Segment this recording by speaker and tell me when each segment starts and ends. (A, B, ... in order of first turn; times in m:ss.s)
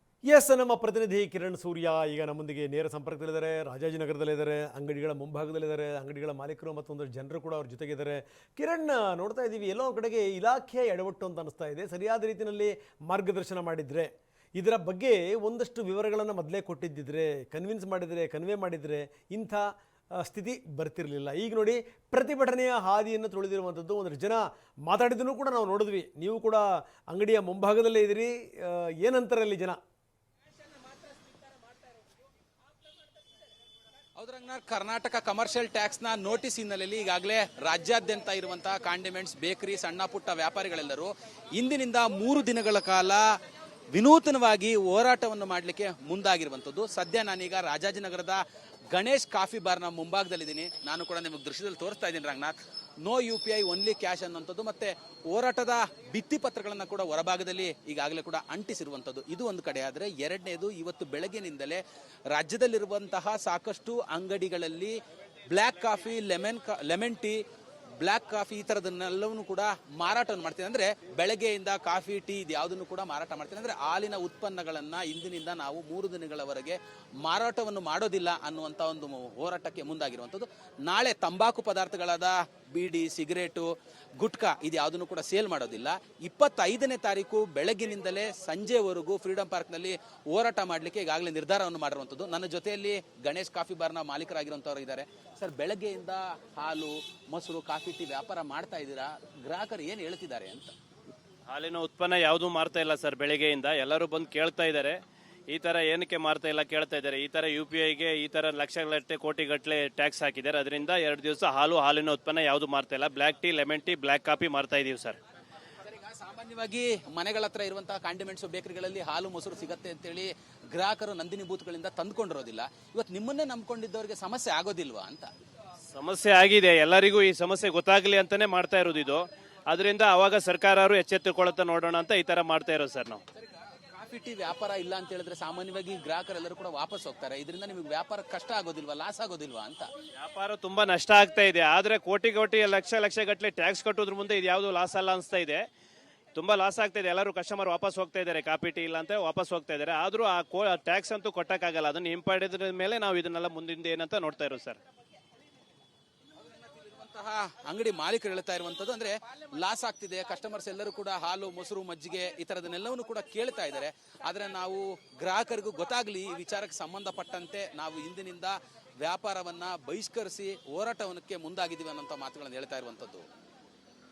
0:00.2-0:29.8 A
0:34.2-0:43.2 B
0:43.9-0:48.4 B
0:48.9-1:01.8 B
1:02.3-1:04.9 B
1:05.5-1:07.4 B
1:08.0-1:40.7 B
1:41.5-1:45.0 C
1:45.5-1:55.2 C
1:55.9-2:05.3 B
2:05.9-2:13.2 C
2:13.9-2:19.9 B
2:20.2-2:25.6 C
2:26.3-2:34.8 C
2:36.6-2:53.2 B